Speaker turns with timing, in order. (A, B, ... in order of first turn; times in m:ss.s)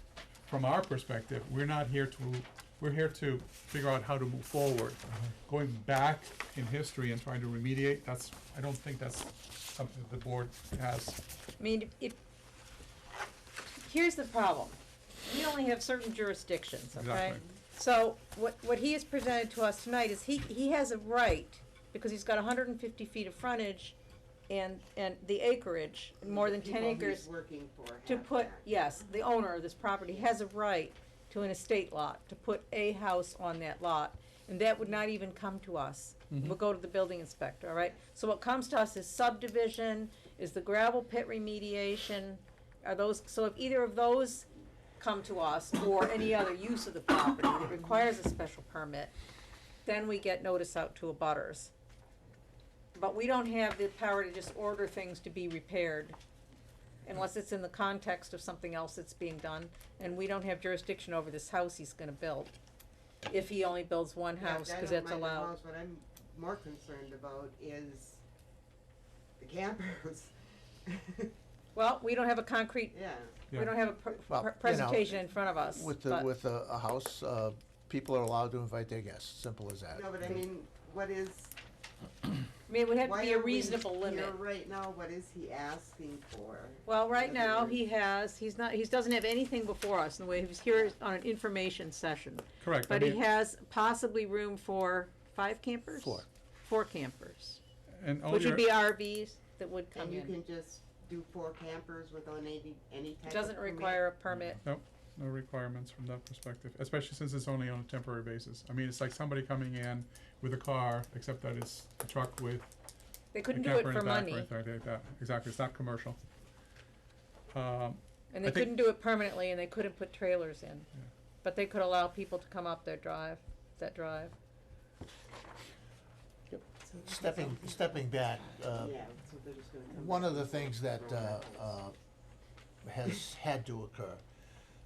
0:00.5-0:11.2 A
0:11.6-0:12.2 B
0:13.7-0:24.0 B
0:17.0-0:17.4 A
0:24.5-0:27.3 B
0:26.2-0:28.6 C
0:28.0-0:44.5 B
0:45.0-0:49.1 B
0:49.8-0:51.7 B
0:52.9-0:56.2 B
0:57.0-1:02.5 B
1:03.3-1:05.5 B
1:04.4-1:08.2 C
1:09.4-1:11.3 C
1:11.7-1:13.0 B
1:12.9-1:13.4 C
1:13.5-1:16.3 B
1:14.3-1:20.4 D
1:19.9-1:21.6 C
1:22.7-1:24.4 B
1:23.0-1:27.8 C
1:26.8-1:37.6 B
1:32.6-1:33.2 A
1:36.0-1:36.2 D
1:37.9-1:38.6 A
1:38.3-1:40.3 B
1:39.9-1:44.0 C
1:43.2-1:44.6 B
1:44.4-1:52.7 A
1:53.3-1:54.5 B
1:53.5-1:56.2 A
1:57.5-1:58.7 A
1:58.3-2:00.9 B
2:01.4-2:04.3 B
2:06.5-2:09.0 D
2:06.8-2:08.0 C
2:08.7-2:11.6 C
2:09.9-2:12.0 D
2:12.8-2:14.2 D